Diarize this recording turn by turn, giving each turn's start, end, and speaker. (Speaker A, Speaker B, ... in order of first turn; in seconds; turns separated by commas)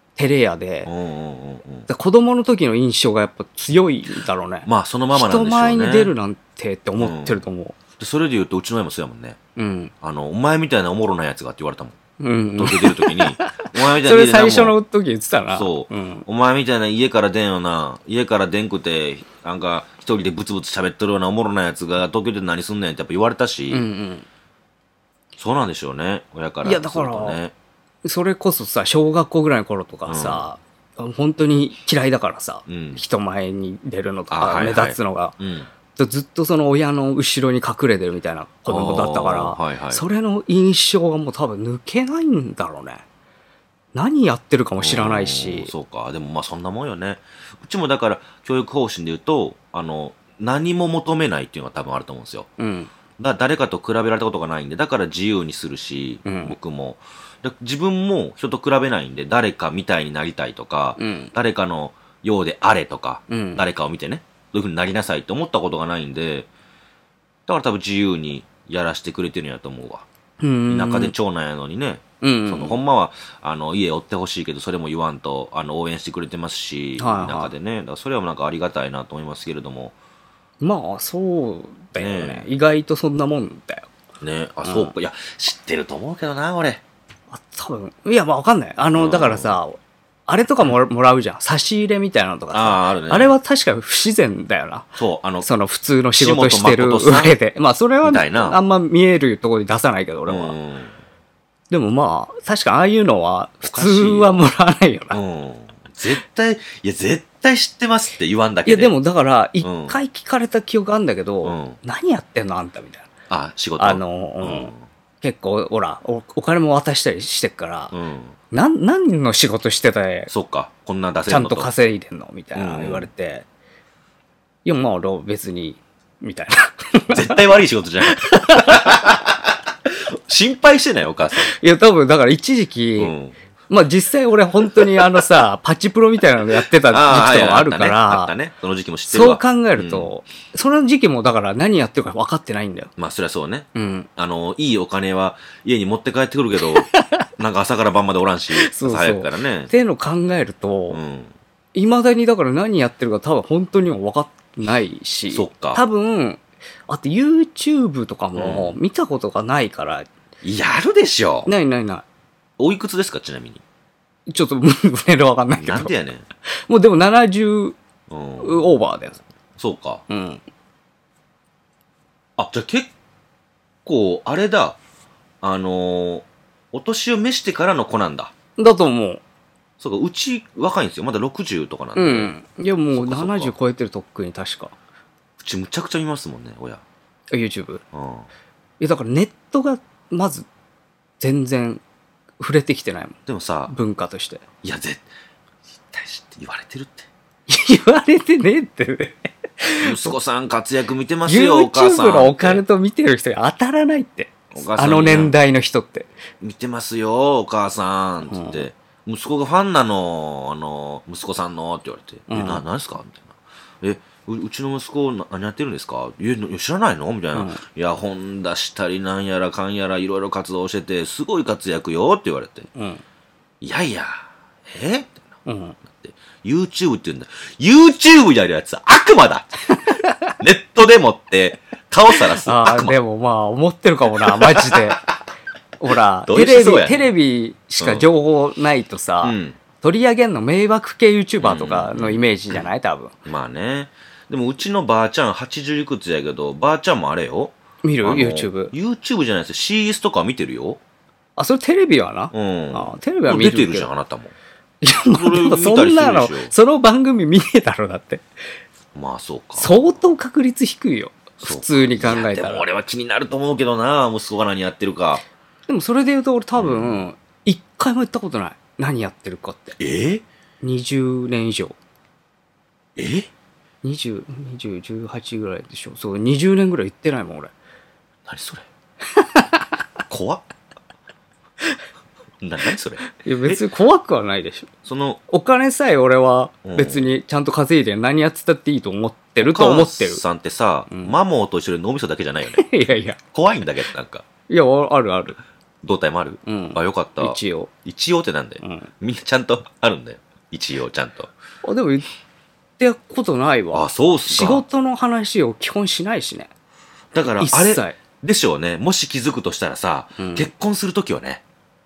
Speaker A: 0.1-0.9, Speaker B: 0.8-1.9, Speaker A: 1.9-7.8, Speaker B: 4.7-6.1, Speaker B: 7.0-7.4, Speaker B: 8.0-9.4, Speaker A: 9.6-9.9, Speaker B: 10.0-12.0, Speaker A: 12.2-16.2, Speaker B: 12.6-14.7, Speaker B: 15.5-23.8, Speaker A: 23.7-24.2, Speaker B: 25.4-27.5, Speaker A: 26.6-27.4, Speaker A: 28.0-35.4, Speaker B: 30.1-30.4, Speaker B: 32.7-33.0, Speaker B: 34.3-35.7, Speaker A: 35.9-43.0, Speaker B: 38.7-40.0, Speaker A: 43.9-45.7, Speaker B: 44.8-52.5, Speaker A: 52.6-52.9, Speaker B: 53.2-66.5, Speaker A: 56.2-56.5, Speaker A: 61.0-61.3, Speaker A: 63.3-63.6, Speaker B: 67.5-70.0, Speaker A: 70.4-71.1, Speaker B: 70.7-79.9, Speaker A: 72.2-72.8, Speaker A: 77.0-77.5, Speaker A: 80.6-83.9, Speaker B: 82.0-82.5, Speaker B: 84.2-86.8, Speaker A: 84.6-84.9, Speaker A: 87.3-100.5, Speaker B: 88.9-89.6, Speaker B: 92.5-93.3, Speaker B: 95.0-95.5, Speaker B: 96.2-97.4, Speaker B: 98.0-98.6, Speaker B: 100.3-100.9, Speaker A: 101.7-105.2, Speaker B: 103.6-104.4, Speaker B: 105.1-108.9, Speaker A: 108.7-113.1, Speaker B: 109.6-110.0, Speaker B: 111.4-111.8, Speaker B: 113.3-114.8, Speaker A: 113.8-117.9, Speaker B: 117.9-118.3, Speaker A: 118.5-120.3, Speaker B: 120.3-121.7, Speaker A: 121.3-123.5, Speaker B: 122.5-123.1, Speaker A: 124.6-129.0, Speaker B: 127.1-131.5, Speaker A: 131.4-133.1, Speaker B: 133.0-133.3, Speaker A: 133.7-138.3, Speaker B: 134.8-135.0, Speaker B: 136.9-140.1, Speaker A: 139.1-142.9, Speaker B: 143.0-149.7, Speaker A: 143.7-144.1, Speaker A: 146.7-147.2, Speaker A: 148.5-151.0, Speaker B: 150.9-151.3, Speaker A: 151.7-160.1, Speaker B: 155.3-155.8, Speaker B: 158.3-158.8, Speaker B: 160.4-161.5, Speaker A: 161.4-162.0, Speaker B: 162.6-163.6, Speaker A: 164.3-165.9, Speaker B: 165.5-166.2, Speaker A: 166.5-167.8, Speaker B: 168.1-168.7, Speaker A: 168.4-169.2, Speaker B: 169.6-170.0, Speaker A: 170.1-170.4, Speaker B: 172.4-172.9, Speaker B: 173.8-174.8, Speaker B: 175.4-178.3, Speaker A: 178.6-179.2, Speaker B: 179.8-182.3, Speaker A: 181.9-184.7, Speaker B: 182.9-183.5, Speaker B: 185.4-186.8, Speaker A: 187.3-187.8, Speaker B: 187.9-188.3, Speaker A: 188.8-190.4, Speaker A: 191.2-191.8, Speaker A: 192.4-194.4, Speaker B: 193.3-193.7, Speaker B: 194.6-195.1, Speaker B: 195.7-197.1, Speaker A: 197.5-200.1, Speaker B: 199.8-202.6, Speaker A: 201.2-206.1, Speaker B: 204.5-205.3, Speaker B: 206.4-222.7, Speaker A: 208.2-208.6, Speaker A: 212.3-212.6, Speaker A: 217.3-217.6, Speaker A: 222.7-223.0, Speaker B: 223.6-225.3, Speaker A: 225.4-225.8, Speaker B: 225.9-229.5, Speaker A: 229.8-230.3, Speaker B: 230.4-232.9, Speaker A: 232.3-235.0, Speaker B: 234.2-234.9, Speaker A: 235.8-243.1, Speaker B: 236.3-237.1, Speaker B: 237.8-238.1, Speaker B: 239.2-239.6, Speaker B: 241.4-242.7, Speaker B: 243.2-250.8, Speaker A: 247.8-248.7, Speaker A: 251.4-253.9, Speaker B: 252.3-254.3, Speaker A: 254.8-258.2, Speaker B: 255.1-256.5, Speaker B: 258.9-259.9, Speaker A: 259.6-262.6, Speaker B: 261.4-265.2, Speaker A: 265.7-269.8, Speaker B: 266.6-267.1, Speaker B: 269.8-270.2, Speaker A: 270.6-271.7, Speaker B: 272.9-273.3, Speaker A: 273.8-277.5, Speaker B: 278.2-278.6, Speaker A: 279.1-279.7, Speaker B: 280.1-280.4, Speaker B: 282.4-283.6, Speaker A: 283.1-284.7, Speaker B: 284.8-285.2, Speaker A: 285.3-290.2, Speaker B: 286.6-287.1, Speaker B: 289.4-292.7, Speaker A: 292.5-293.2, Speaker B: 293.3-294.2, Speaker A: 294.5-295.4, Speaker B: 295.8-301.3, Speaker A: 296.4-297.7, Speaker A: 298.6-298.9, Speaker A: 301.6-302.1, Speaker A: 302.8-306.5, Speaker B: 303.7-304.6, Speaker B: 307.1-311.4, Speaker A: 307.4-308.0, Speaker A: 310.2-310.5